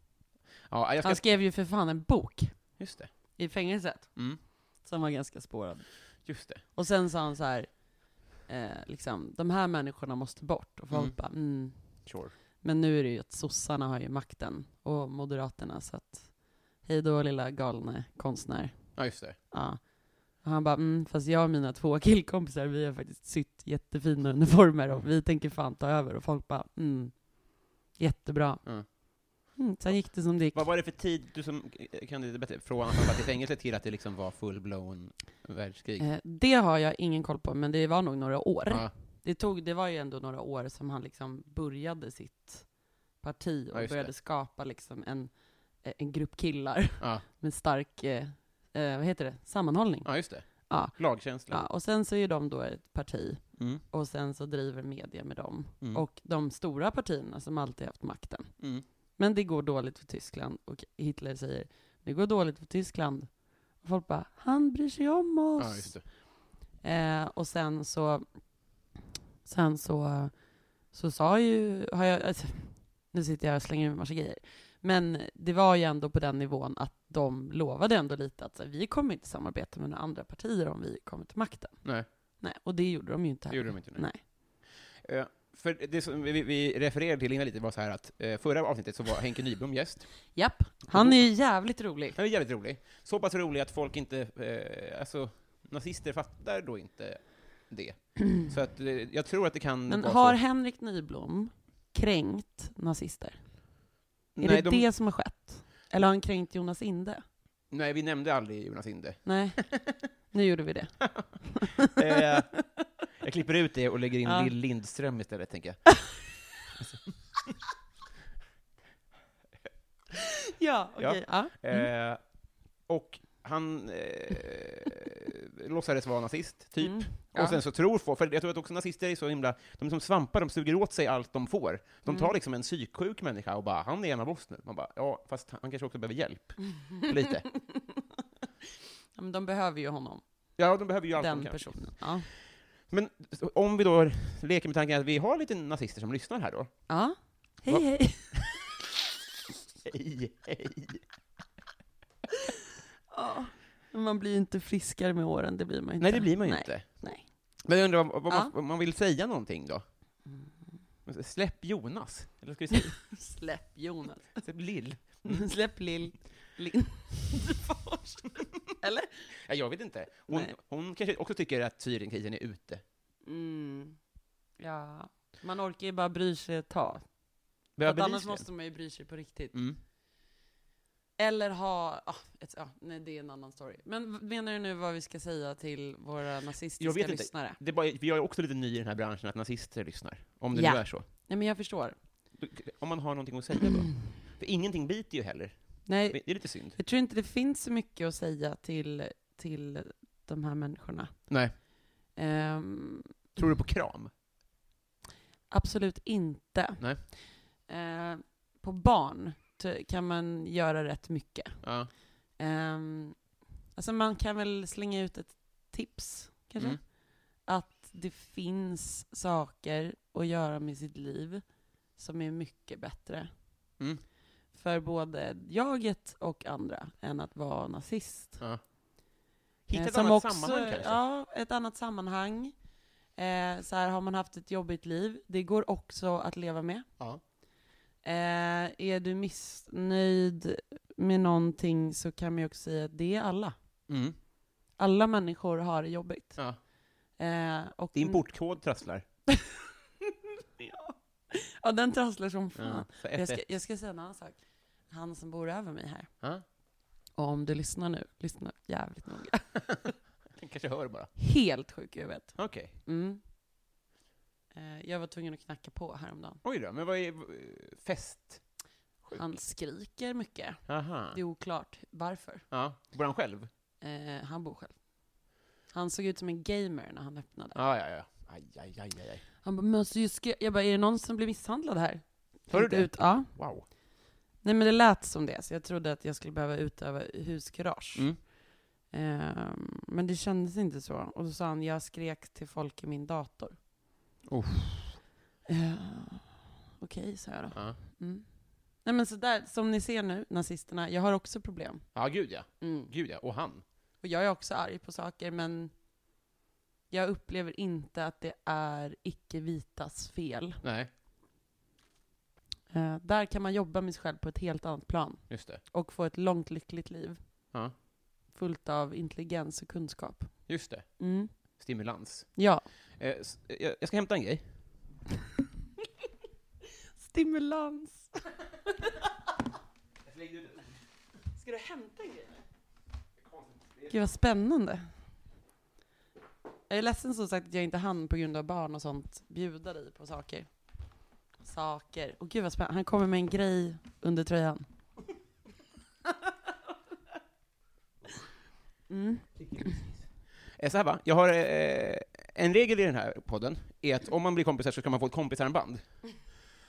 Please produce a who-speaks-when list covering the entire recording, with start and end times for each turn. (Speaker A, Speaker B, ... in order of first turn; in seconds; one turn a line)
Speaker A: 0.7-1.3
Speaker B: 1.0-2.6
Speaker A: 2.8-3.1
Speaker B: 3.4-12.1
Speaker A: 6.2-6.6
Speaker A: 10.9-11.2
Speaker A: 12.0-12.3
Speaker B: 12.6-30.7
Speaker A: 19.0-19.4
Speaker A: 30.5-36.1
Speaker B: 36.0-42.7
Speaker B: 43.2-58.6
Speaker A: 43.7-44.1
Speaker A: 50.0-51.6
Speaker A: 53.6-53.8
Speaker B: 59.2-66.0
Speaker A: 65.6-66.0
Speaker B: 66.8-68.4
Speaker B: 69.5-81.8
Speaker B: 82.4-84.2
Speaker A: 83.5-84.0
Speaker A: 85.0-90.3
Speaker B: 90.3-92.2
Speaker A: 90.9-91.3
Speaker A: 92.1-100.4
Speaker B: 99.9-103.4
Speaker A: 104.3-104.9
Speaker B: 104.4-107.2
Speaker A: 107.7-110.0
Speaker B: 109.2-112.0
Speaker A: 111.0-112.5
Speaker A: 113.2-116.2
Speaker B: 114.2-114.5
Speaker B: 120.5-121.9
Speaker A: 121.0-122.2
Speaker A: 122.9-137.5
Speaker B: 126.8-127.6
Speaker B: 139.2-140.2
Speaker A: 140.6-142.1
Speaker B: 141.2-142.3
Speaker A: 142.8-146.8
Speaker B: 146.9-148.4
Speaker A: 147.7-148.4
Speaker A: 149.8-151.0
Speaker B: 153.1-157.3
Speaker A: 156.0-157.0
Speaker A: 157.6-159.8
Speaker B: 160.3-160.7
Speaker A: 161.1-163.0
Speaker B: 162.8-164.4
Speaker A: 164.4-165.4
Speaker B: 165.2-169.3
Speaker A: 169.4-172.8
Speaker B: 173.2-174.0
Speaker B: 174.6-177.1
Speaker B: 177.8-179.6
Speaker A: 177.8-178.5
Speaker A: 179.5-179.8
Speaker B: 181.2-187.6
Speaker A: 186.8-191.1
Speaker B: 190.5-192.0
Speaker A: 192.3-196.8
Speaker B: 195.9-201.3
Speaker A: 201.3-201.5
Speaker B: 202.1-203.2
Speaker A: 203.4-204.1
Speaker B: 205.5-211.7
Speaker A: 211.6-211.9
Speaker B: 212.4-221.4
Speaker B: 222.0-223.3
Speaker B: 224.5-228.4
Speaker A: 229.7-231.0
Speaker B: 229.7-232.6
Speaker B: 233.2-236.9
Speaker B: 238.0-243.6
Speaker A: 243.9-244.2
Speaker B: 244.8-246.4
Speaker B: 247.2-248.2
Speaker A: 247.9-249.1
Speaker B: 249.3-249.6
Speaker B: 250.6-256.1
Speaker A: 252.6-253.5
Speaker B: 257.1-259.9
Speaker A: 260.3-261.1
Speaker B: 261.2-263.2
Speaker A: 262.4-262.8
Speaker B: 264.5-266.4
Speaker A: 266.4-268.5
Speaker B: 269.1-272.5
Speaker A: 270.7-271.2
Speaker A: 272.5-273.5
Speaker B: 273.8-275.1
Speaker B: 275.7-277.6
Speaker A: 277.5-279.2
Speaker B: 279.4-283.3
Speaker A: 282.5-283.7
Speaker B: 284.4-288.4
Speaker A: 287.9-288.2
Speaker B: 288.9-293.6
Speaker A: 294.3-295.0
Speaker B: 295.5-302.0
Speaker A: 297.5-297.8
Speaker A: 301.9-303.6
Speaker B: 302.6-302.9
Speaker B: 304.0-305.7
Speaker B: 306.9-310.6
Speaker A: 310.6-310.9
Speaker B: 312.7-317.4
Speaker A: 315.3-315.6
Speaker B: 318.3-321.3
Speaker A: 320.5-322.4
Speaker B: 322.4-322.6
Speaker A: 323.0-324.5
Speaker B: 327.0-329.0
Speaker A: 330.1-330.8
Speaker B: 331.4-332.4
Speaker A: 333.2-333.9
Speaker B: 333.9-334.9
Speaker B: 336.7-340.5
Speaker B: 341.4-344.7
Speaker B: 348.9-349.8
Speaker A: 349.4-350.0
Speaker A: 350.6-355.9